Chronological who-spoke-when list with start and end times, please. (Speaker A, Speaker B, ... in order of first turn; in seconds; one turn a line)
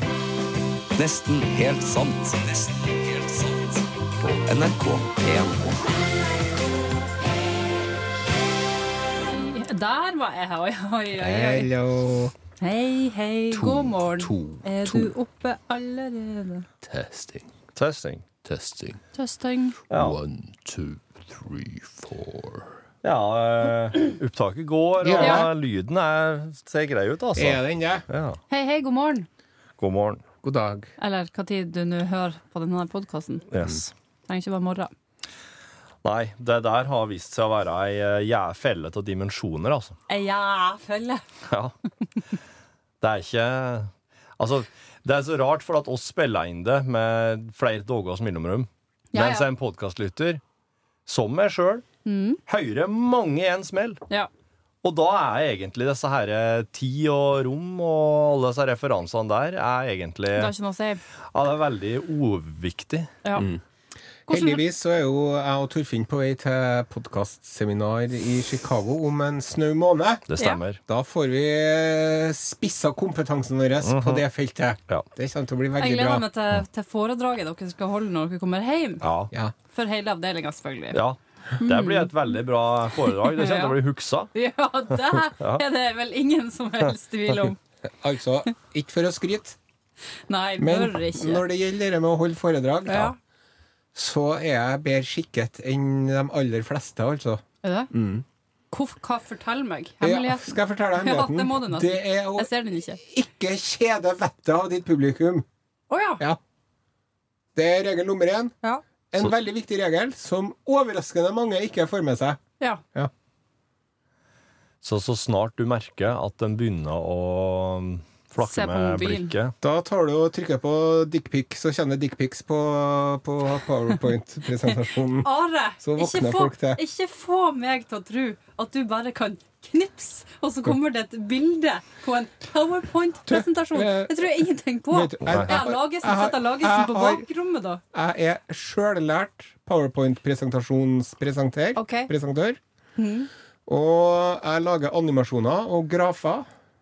Speaker A: 1.0-6.0
Speaker B: 9.2-11.7
Speaker C: 11.2-12.3
Speaker B: 12.6-16.6
Speaker A: 13.5-15.1
Speaker A: 16.8-17.5
Speaker D: 17.8-18.2
Speaker A: 18.4-19.0
Speaker B: 19.1-19.8
Speaker A: 19.9-22.7
Speaker D: 19.9-20.2
Speaker D: 23.0-28.4
Speaker C: 25.0-25.5
Speaker B: 25.2-25.4
Speaker C: 27.3-28.1
Speaker B: 28.5-29.3
Speaker D: 29.8-30.2
Speaker C: 30.4-30.9
Speaker B: 31.0-33.5
Speaker D: 33.5-33.9
Speaker B: 34.3-34.9
Speaker D: 36.0-40.0
Speaker B: 40.1-41.2
Speaker D: 41.5-41.7
Speaker D: 43.0-50.4
Speaker B: 49.1-49.5
Speaker D: 51.0-51.8
Speaker B: 52.0-52.4
Speaker D: 52.5-54.0
Speaker D: 54.8-60.5
Speaker B: 60.3-61.0
Speaker D: 61.3-63.1
Speaker C: 63.4-63.6
Speaker B: 64.3-64.6
Speaker C: 64.3-70.2
Speaker D: 70.3-70.8
Speaker C: 70.9-76.2
Speaker D: 73.8-74.2
Speaker B: 75.8-79.0
Speaker D: 79.0-79.3
Speaker B: 79.7-81.0
Speaker D: 80.9-84.3
Speaker B: 81.6-82.1
Speaker B: 83.2-83.8
Speaker B: 84.3-87.6
Speaker D: 85.3-85.6
Speaker C: 87.8-89.6
Speaker B: 90.3-91.4
Speaker C: 90.6-93.1
Speaker B: 92.9-93.2
Speaker C: 93.9-98.2
Speaker B: 97.6-97.9
Speaker B: 98.7-103.0
Speaker C: 100.0-105.5
Speaker B: 105.9-106.2
Speaker C: 107.5-108.5
Speaker C: 109.1-112.4
Speaker D: 114.8-119.5
Speaker B: 118.4-119.3
Speaker C: 119.6-125.3
Speaker B: 125.2-137.8
Speaker C: 125.8-126.8
Speaker C: 133.3-134.3
Speaker C: 134.9-137.2
Speaker D: 135.3-135.6
Speaker C: 137.9-142.6
Speaker B: 141.8-142.1
Speaker B: 143.0-143.3
Speaker C: 143.7-146.4